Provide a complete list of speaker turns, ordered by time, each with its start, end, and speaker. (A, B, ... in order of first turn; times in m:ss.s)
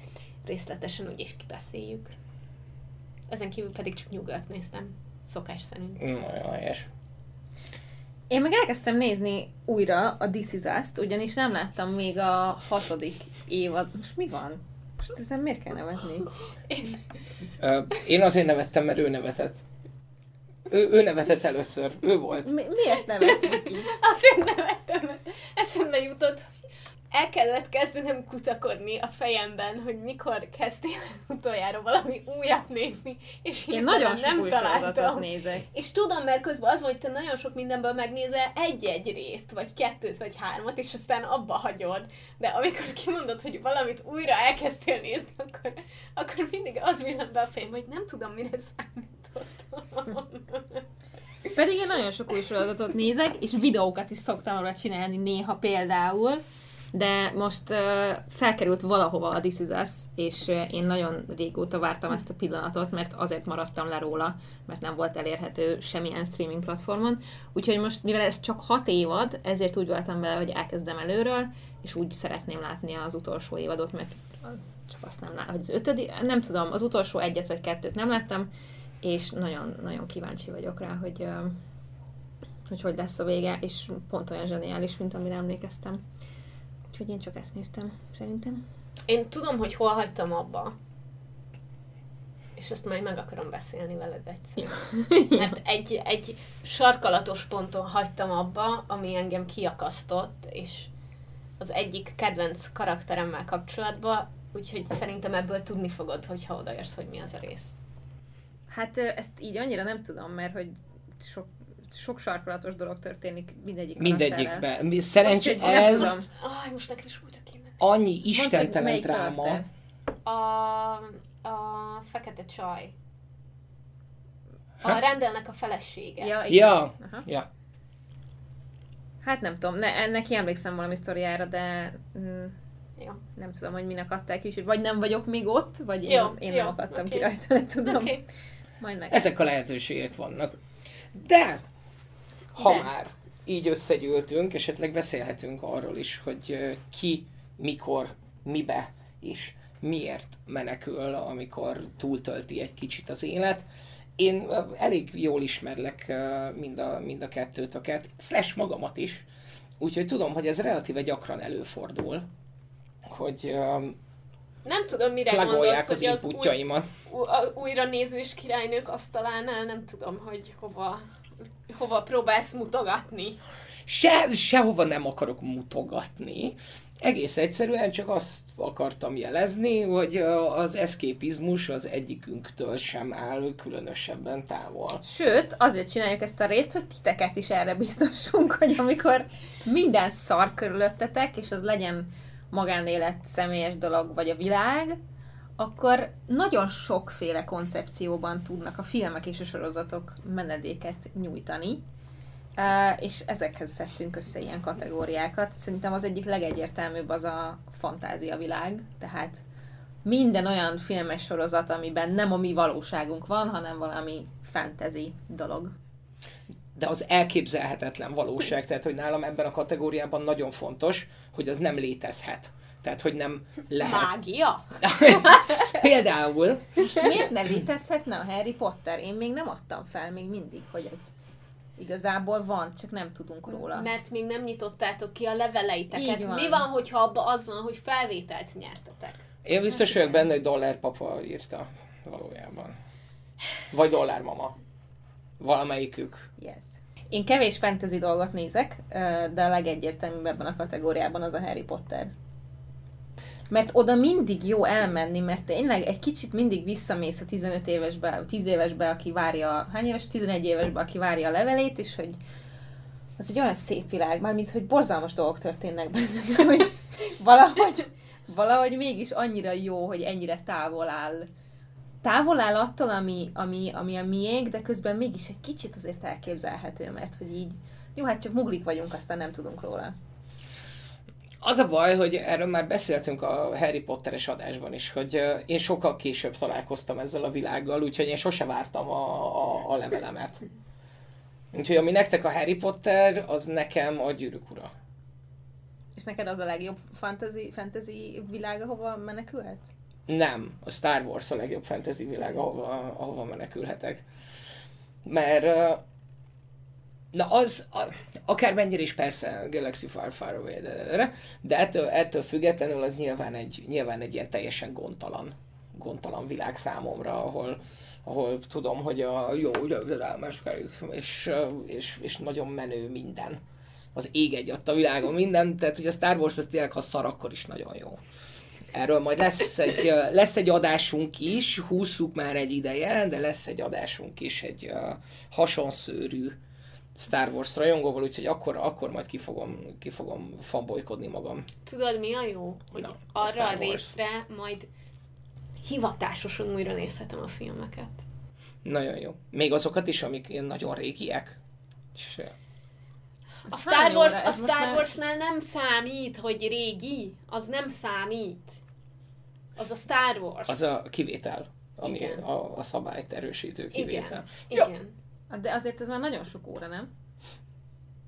0:00.4-0:02.2 A
0:03.3-0:06.0 A
0:06.0-0:06.9 B
0:08.3-0:16.3 C
0:16.7-0:17.0 A
0:17.6-0:19.6 B
0:20.7-0:22.5 B
0:22.4-0:23.9 C
0:23.2-0:26.5 A
0:27.1-0:50.8 A
0:33.7-0:35.6 C
0:51.5-0:56.4 C
0:56.9-1:18.5 C
1:19.0-1:21.6 C
1:22.7-1:26.0 C
1:26.9-1:28.6 C
1:29.1-1:30.8 A
1:32.6-1:40.9 A
1:34.9-1:35.5 C
1:41.6-1:47.7 A
1:48.7-1:54.6 C
1:54.0-1:56.2 B
1:55.2-1:56.3 C
1:55.6-1:57.9 A
1:57.8-1:59.6 B
1:58.3-1:59.7 C
2:00.2-2:02.9 A
2:04.8-2:06.4 A
2:06.2-2:07.3 C
2:06.5-2:07.5 B
2:09.2-2:12.6 C
2:13.4-2:18.2 C
2:16.1-2:17.3 A
2:17.8-2:18.2 A
2:18.8-2:19.3 C
2:19.1-2:20.6 B
2:21.1-2:21.6 B
2:22.6-2:33.7 B
2:34.2-2:39.3 B
2:39.8-2:42.3 B
2:43.1-2:44.0 B
2:44.6-2:51.1 A
2:45.3-2:46.9 B
2:51.7-2:53.4 A
2:53.9-3:05.0 B
3:05.0-3:15.0 C
3:15.6-3:21.8 C
3:22.6-3:29.4 C
3:30.0-3:35.7 C
3:36.8-3:44.1 B
3:43.8-3:45.8 A
3:44.8-3:47.0 B
3:46.9-3:51.1 C
3:51.8-3:53.9 C
3:53.6-3:59.3 A
3:55.9-3:56.7 C
3:59.4-4:02.8 B
4:03.7-4:04.6 B
4:05.4-4:06.3 B
4:06.4-4:12.1 C
4:13.5-4:22.2 C
4:23.2-4:31.3 C
4:32.0-4:40.0 C
4:41.4-4:50.4 B
4:51.5-4:54.7 B
4:56.0-4:59.7 C
5:00.1-5:04.0 B
5:05.0-5:05.8 B
5:07.1-5:23.4 B
5:24.0-5:28.0 B
5:28.7-5:36.4 B
5:37.0-5:41.5 B
5:41.7-5:44.7 A
5:42.8-5:43.9 B
5:45.6-5:48.0 A
5:48.6-5:51.4 B
5:52.0-5:52.3 B
5:53.5-5:55.0 C
5:53.5-5:58.6 A
5:59.6-6:00.7 A
6:00.5-6:04.7 B
6:01.8-6:02.2 A
6:03.7-6:04.9 A
6:05.3-6:06.9 C